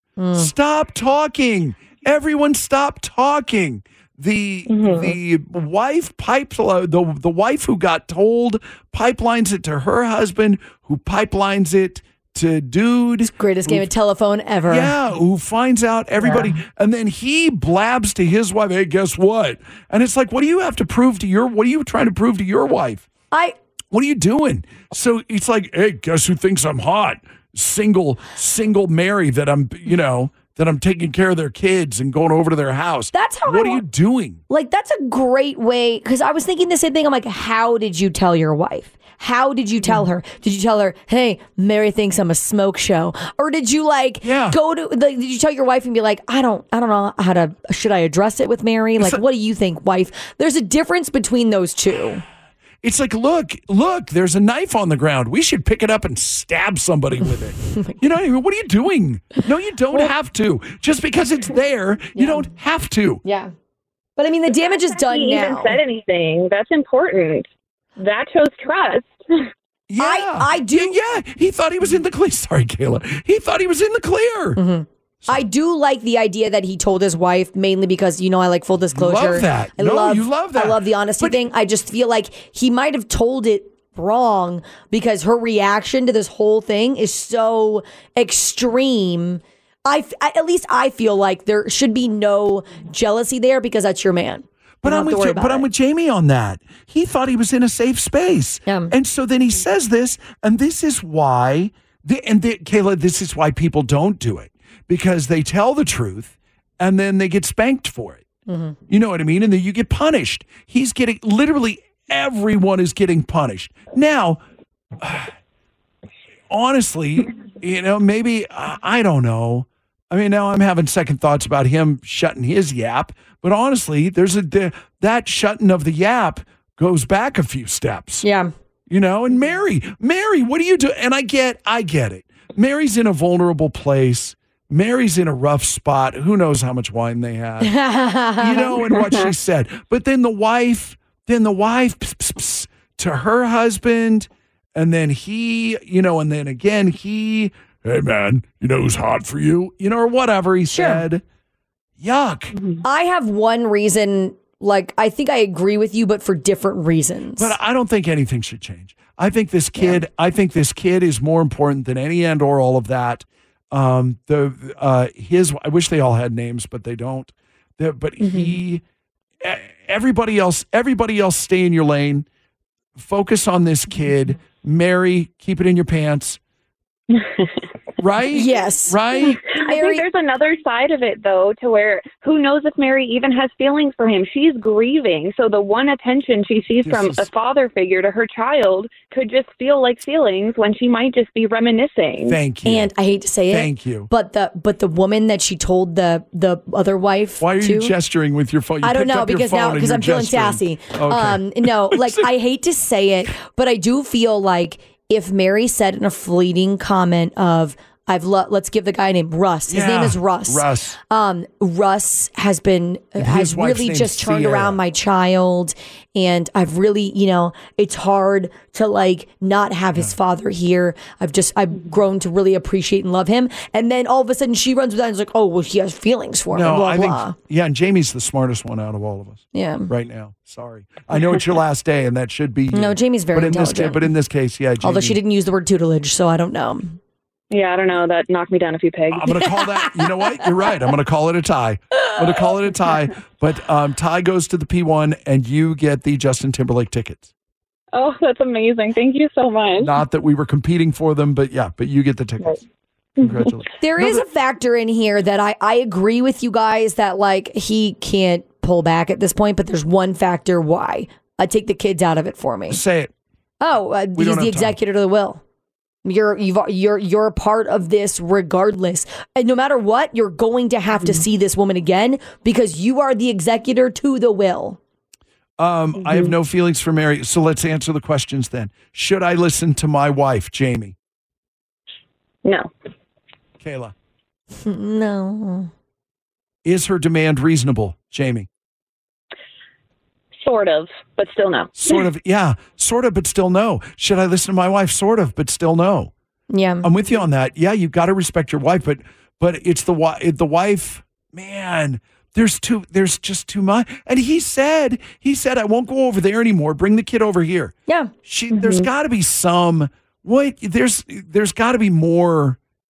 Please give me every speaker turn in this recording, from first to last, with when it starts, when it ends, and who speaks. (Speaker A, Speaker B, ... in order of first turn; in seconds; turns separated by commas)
Speaker A: 0.2-0.5, Speaker B: 0.4-13.9, Speaker A: 13.3-14.9, Speaker B: 14.7-23.1, Speaker A: 16.2-16.5, Speaker B: 23.9-34.4, Speaker A: 33.1-33.8, Speaker A: 34.5-52.2, Speaker B: 44.2-44.6, Speaker B: 52.8-63.2, Speaker A: 57.6-58.0, Speaker A: 62.1-62.5, Speaker A: 63.2-63.5, Speaker A: 64.2-65.8, Speaker C: 64.8-69.2, Speaker B: 69.9-74.6, Speaker A: 70.0-71.0, Speaker A: 74.6-95.7, Speaker B: 78.9-81.4, Speaker B: 94.8-108.2, Speaker A: 98.7-98.9, Speaker A: 108.5-108.8, Speaker B: 108.9-114.4, Speaker B: 115.0-115.3, Speaker B: 116.5-128.2, Speaker A: 128.2-128.5, Speaker B: 128.9-137.7, Speaker A: 137.6-138.8, Speaker B: 138.4-151.2, Speaker A: 150.7-151.0, Speaker B: 152.0-152.6, Speaker C: 152.6-152.8, Speaker A: 152.8-157.6, Speaker B: 157.4-168.8, Speaker B: 169.4-172.3, Speaker B: 173.0-176.4, Speaker C: 177.1-177.5, Speaker B: 178.0-179.4, Speaker A: 178.3-180.1, Speaker C: 179.5-192.4, Speaker B: 186.8-187.3, Speaker B: 192.3-192.9, Speaker A: 192.7-197.9, Speaker B: 193.5-194.1, Speaker B: 197.4-202.3, Speaker A: 198.8-227.3, Speaker B: 209.7-211.0, Speaker B: 213.2-214.8, Speaker B: 226.5-235.2, Speaker A: 229.5-229.9, Speaker A: 232.7-234.1, Speaker A: 234.8-237.0, Speaker C: 237.5-239.4, Speaker B: 239.1-247.3, Speaker C: 247.9-250.0, Speaker B: 249.8-252.6, Speaker C: 253.2-253.5, Speaker B: 253.2-254.2, Speaker A: 253.8-262.8, Speaker B: 262.7-263.1, Speaker A: 263.6-265.4, Speaker B: 264.2-264.8, Speaker A: 266.1-274.8, Speaker B: 275.6-280.9, Speaker C: 276.0-276.3, Speaker C: 282.4-282.7, Speaker B: 283.6-283.9, Speaker A: 284.6-285.7, Speaker B: 286.6-288.5, Speaker C: 290.4-292.0, Speaker B: 291.8-296.1, Speaker A: 296.5-296.9, Speaker B: 296.8-307.7, Speaker A: 307.9-308.1, Speaker B: 308.3-312.6, Speaker C: 308.5-308.9